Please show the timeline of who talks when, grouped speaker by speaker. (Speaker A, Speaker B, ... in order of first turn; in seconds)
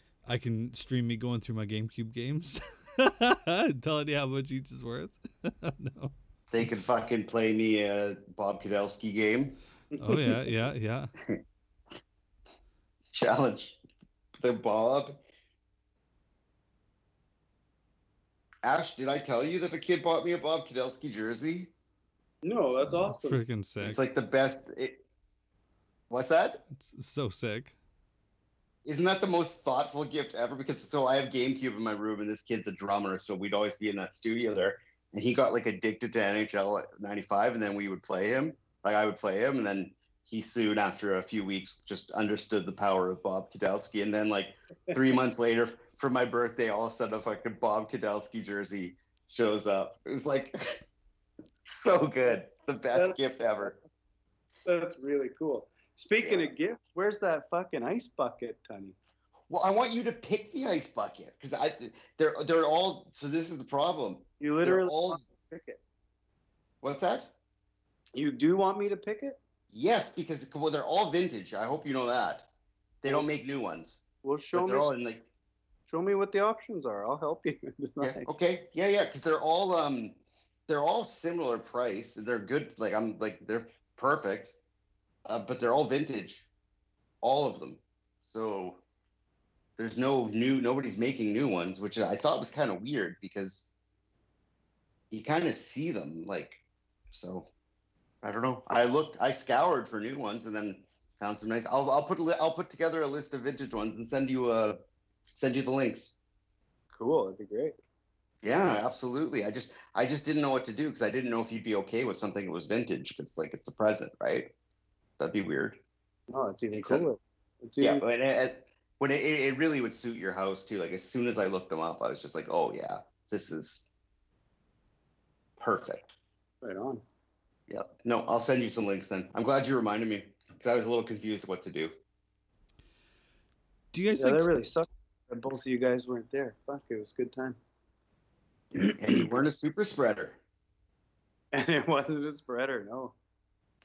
Speaker A: 0.2-6.1, 10.0-11.1, 22.8-24.0, 26.7-27.7, 133.9-134.5
Speaker B: 6.5-9.6, 13.1-13.8, 14.4-15.2, 18.6-21.7, 23.8-25.0, 26.1-26.6, 28.8-50.8, 51.7-53.7, 56.2-56.5, 59.5-65.2, 66.8-67.3, 69.7-72.5, 73.0-74.0, 74.5-75.3, 78.0-80.2, 80.7-84.5, 85.2-86.5, 87.2-88.8, 89.8-93.7, 95.1-96.6, 97.1-97.5, 98.2-104.8, 105.3-106.2, 108.4-114.5, 115.2-115.8, 116.7-117.0, 117.8-123.9, 125.6-126.1, 127.7-131.9, 138.9-140.4
Speaker C: 9.9-10.4, 22.4-23.4, 52.9-53.8, 54.6-59.0, 64.4-65.8, 68.2-69.4, 74.2-74.9, 75.9-78.3, 106.9-107.8, 116.3-118.0, 126.6-127.0, 134.2-137.6, 138.8-139.3, 141.5-143.1